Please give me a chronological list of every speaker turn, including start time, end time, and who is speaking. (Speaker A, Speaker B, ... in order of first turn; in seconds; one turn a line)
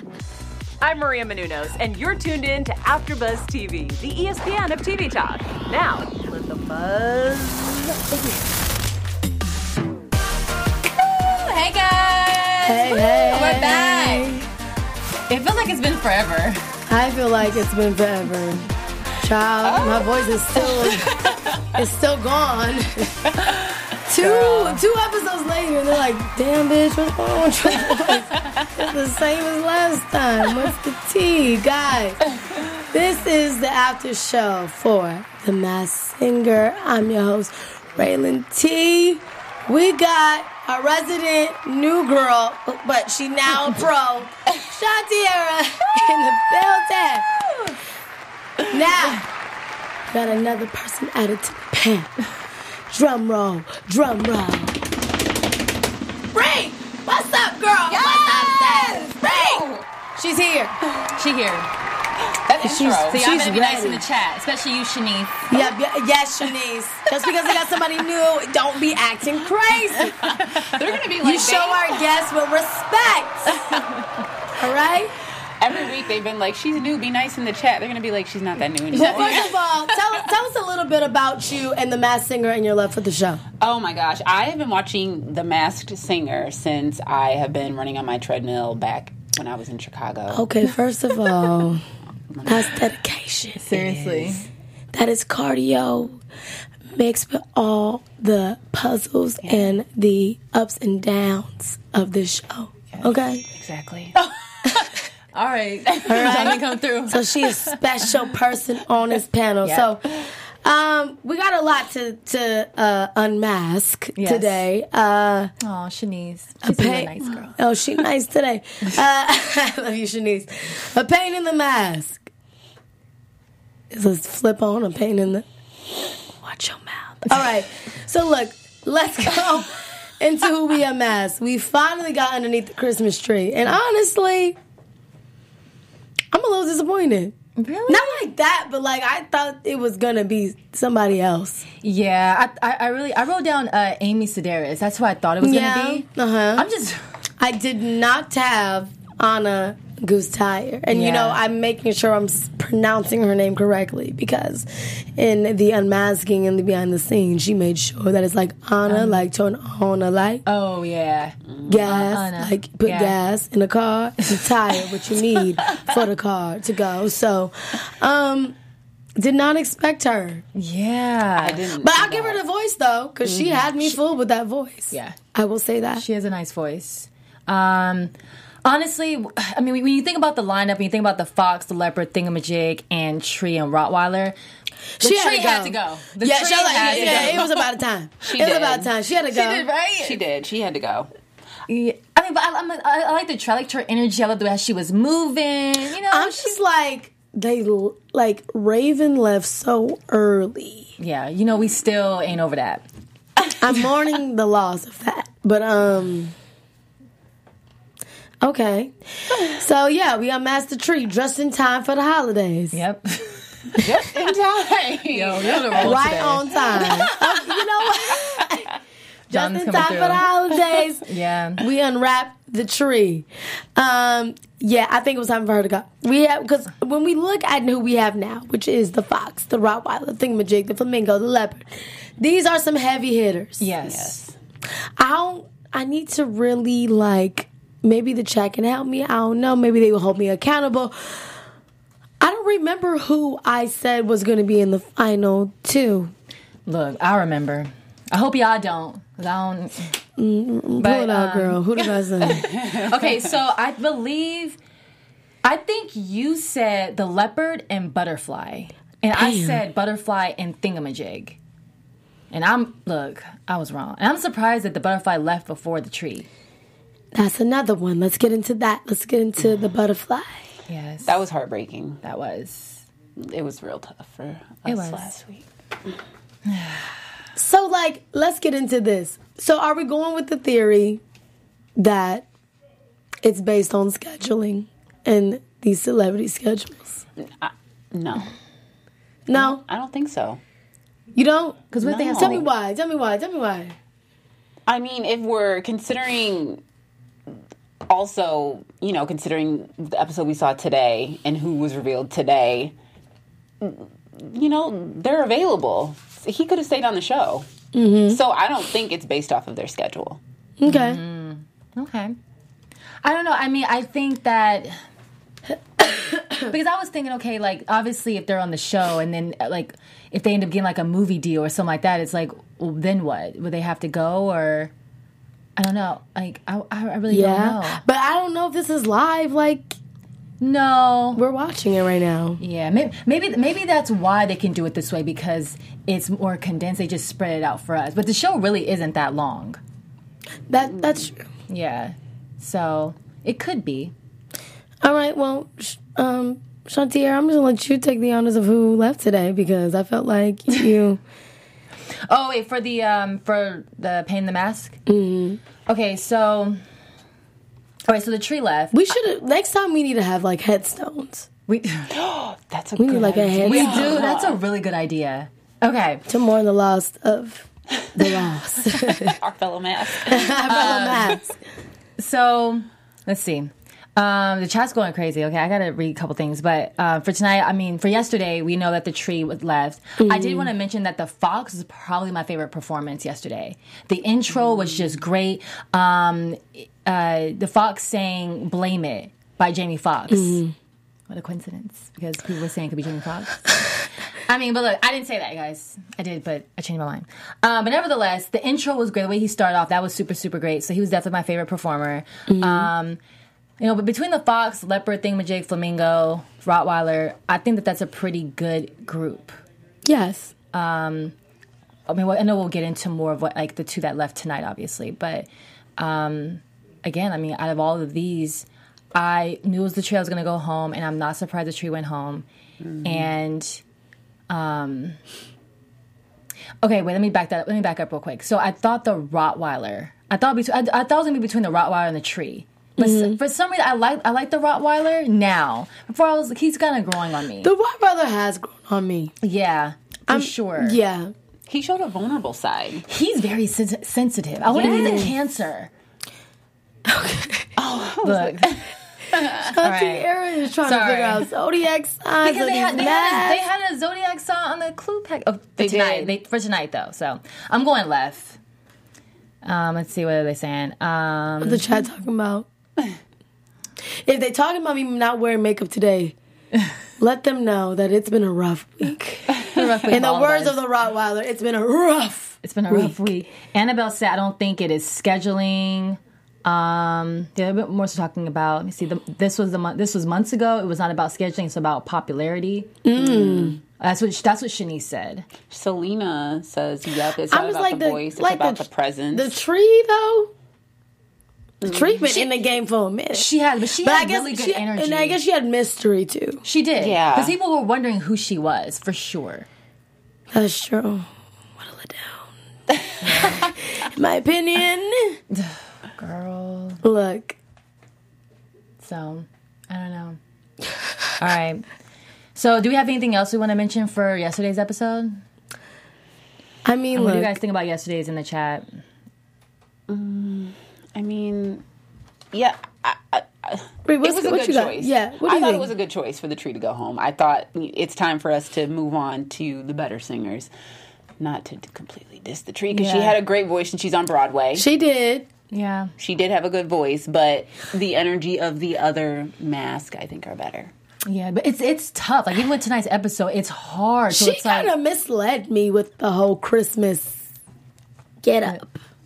Speaker A: 0.8-8.5
Speaker B: 10.9-14.4
Speaker C: 12.6-14.4
Speaker B: 15.3-16.6
Speaker C: 16.9-18.6
Speaker C: 19.2-23.3
Speaker D: 19.6-20.2
Speaker D: 20.8-21.6
Speaker C: 24.0-32.2
Speaker B: 24.2-24.8
Speaker C: 32.8-47.3
Speaker C: 48.7-49.2
Speaker C: 50.1-52.1
Speaker C: 52.9-54.8
Speaker C: 56.3-60.8
Speaker D: 57.9-59.9
Speaker B: 61.1-61.7
Speaker D: 62.2-63.2
Speaker C: 62.6-64.0
Speaker B: 63.0-65.5
Speaker C: 65.5-70.2
Speaker D: 70.1-72.0
Speaker C: 71.2-73.7
Speaker B: 73.6-74.0
Speaker C: 74.5-75.1
Speaker D: 75.6-79.6
Speaker C: 78.9-83.4
Speaker B: 79.0-79.5
Speaker D: 83.6-90.4
Speaker C: 90.3-91.8
Speaker D: 92.3-92.8
Speaker C: 92.4-93.7
Speaker B: 93.6-94.5
Speaker D: 93.7-94.3
Speaker C: 94.9-96.2
Speaker C: 97.0-103.5
Speaker D: 99.4-99.7
Speaker D: 102.9-104.2
Speaker B: 104.1-107.8
Speaker C: 104.6-104.9
Speaker D: 105.9-106.5
Speaker C: 106.0-115.5
Speaker B: 109.6-109.9
Speaker B: 114.2-114.6
Speaker B: 115.6-117.5
Speaker C: 116.6-122.3
Speaker C: 123.9-125.4
Speaker C: 126.4-134.6
Speaker C: 136.3-137.3
Speaker B: 137.6-138.2
Speaker C: 137.9-141.6
Speaker B: 141.8-147.0
Speaker C: 145.4-146.7
Speaker C: 147.4-160.4
Speaker B: 150.9-151.4
Speaker B: 158.8-159.3
Speaker B: 160.4-163.1
Speaker D: 161.5-161.8
Speaker C: 161.7-168.6
Speaker C: 169.2-170.4
Speaker B: 170.5-171.6
Speaker D: 171.4-172.4
Speaker C: 171.8-176.0
Speaker D: 173.3-173.6
Speaker B: 174.9-175.2
Speaker B: 175.9-178.1
Speaker B: 178.6-184.3
Speaker C: 185.0-189.7
Speaker B: 185.0-187.5
Speaker D: 186.7-187.6
Speaker D: 188.2-188.9
Speaker B: 189.3-190.2
Speaker D: 190.0-191.1
Speaker B: 191.7-196.5
Speaker C: 196.1-200.9
Speaker B: 201.0-202.8
Speaker C: 203.6-206.3
Speaker C: 208.4-212.8
Speaker B: 212.7-213.4
Speaker D: 213.8-216.0
Speaker B: 215.1-217.1
Speaker C: 215.8-218.7
Speaker D: 216.8-218.4
Speaker C: 219.3-221.1
Speaker B: 219.3-220.3
Speaker B: 221.0-221.6
Speaker C: 221.6-233.7
Speaker B: 233.6-234.2
Speaker D: 233.8-234.3
Speaker C: 235.0-241.2
Speaker C: 242.2-246.1
Speaker B: 246.7-249.9
Speaker C: 250.2-252.5
Speaker B: 250.8-251.6
Speaker D: 252.4-252.9
Speaker B: 252.7-254.6
Speaker B: 255.4-261.4
Speaker C: 259.1-259.6
Speaker B: 262.3-266.3
Speaker C: 267.1-270.4
Speaker B: 270.7-271.1
Speaker D: 271.0-272.0
Speaker B: 272.0-272.8
Speaker D: 273.2-275.4
Speaker B: 274.6-275.1
Speaker B: 276.4-276.9
Speaker C: 277.4-281.0
Speaker C: 281.8-282.2
Speaker C: 283.2-287.0
Speaker D: 287.2-288.3
Speaker C: 289.3-289.6
Speaker D: 289.3-290.4
Speaker C: 291.1-293.7
Speaker B: 291.7-292.5
Speaker D: 291.8-292.4
Speaker D: 294.7-296.6
Speaker D: 297.9-302.7
Speaker D: 303.6-307.4
Speaker C: 307.7-308.2
Speaker D: 308.1-310.2
Speaker C: 310.6-311.0
Speaker B: 310.6-312.1
Speaker B: 313.0-314.7
Speaker B: 316.4-324.7
Speaker B: 325.6-327.8
Speaker C: 327.1-329.8
Speaker B: 330.4-331.2
Speaker C: 331.1-332.4
Speaker B: 332.4-339.6
Speaker C: 340.5-341.2
Speaker B: 341.5-343.9
Speaker C: 344.8-351.0
Speaker B: 352.1-354.8
Speaker C: 354.9-355.4
Speaker B: 355.7-356.6
Speaker B: 357.9-358.8
Speaker C: 358.7-361.3
Speaker B: 361.5-361.9
Speaker D: 361.9-364.4
Speaker C: 362.8-364.0
Speaker B: 363.4-366.0
Speaker C: 366.1-369.2
Speaker D: 369.0-371.1
Speaker C: 370.0-371.3
Speaker B: 370.5-371.2
Speaker B: 372.0-390.4
Speaker C: 380.0-380.5
Speaker C: 390.1-390.5
Speaker B: 391.1-403.0
Speaker C: 402.3-402.7
Speaker B: 403.6-409.4
Speaker C: 409.8-410.3
Speaker B: 410.5-411.1
Speaker B: 411.9-415.3
Speaker B: 415.8-422.2
Speaker D: 422.6-422.9
Speaker B: 422.8-423.6
Speaker B: 424.3-424.9
Speaker B: 426.6-437.5
Speaker C: 432.8-433.2
Speaker C: 437.4-439.1
Speaker B: 439.2-440.8
Speaker C: 440.1-441.1
Speaker D: 441.5-442.8
Speaker B: 442.9-445.7
Speaker C: 444.5-445.1
Speaker D: 444.6-445.0
Speaker C: 446.9-447.5
Speaker D: 447.6-449.5
Speaker B: 448.0-448.6
Speaker C: 449.4-453.4
Speaker B: 449.6-450.1
Speaker B: 450.6-451.2
Speaker B: 452.2-458.4
Speaker D: 455.6-456.1
Speaker B: 459.4-461.6
Speaker C: 461.4-462.4
Speaker C: 464.0-466.1
Speaker C: 467.0-473.1
Speaker B: 469.4-470.6
Speaker B: 472.4-482.8
Speaker C: 482.8-483.6
Speaker D: 483.1-483.5
Speaker B: 483.8-485.3
Speaker D: 485.5-489.3
Speaker C: 487.3-490.3
Speaker C: 491.6-493.3
Speaker D: 491.6-492.2
Speaker B: 493.1-495.2
Speaker C: 493.8-496.4
Speaker B: 496.4-499.5
Speaker D: 496.8-497.3
Speaker C: 500.3-501.1
Speaker C: 501.6-502.3
Speaker B: 503.0-503.5
Speaker C: 503.2-505.2
Speaker B: 505.3-506.8
Speaker C: 506.8-507.4
Speaker B: 508.8-510.2
Speaker B: 511.2-511.6
Speaker B: 512.3-515.2
Speaker C: 516.6-517.3
Speaker B: 516.9-518.6
Speaker D: 519.9-521.6
Speaker D: 522.3-530.5
Speaker C: 523.9-525.7
Speaker D: 531.2-534.6
Speaker B: 532.7-533.2
Speaker C: 534.5-535.2
Speaker B: 535.5-535.9
Speaker D: 536.0-540.7
Speaker B: 541.0-544.7
Speaker C: 544.1-547.2
Speaker C: 548.2-548.8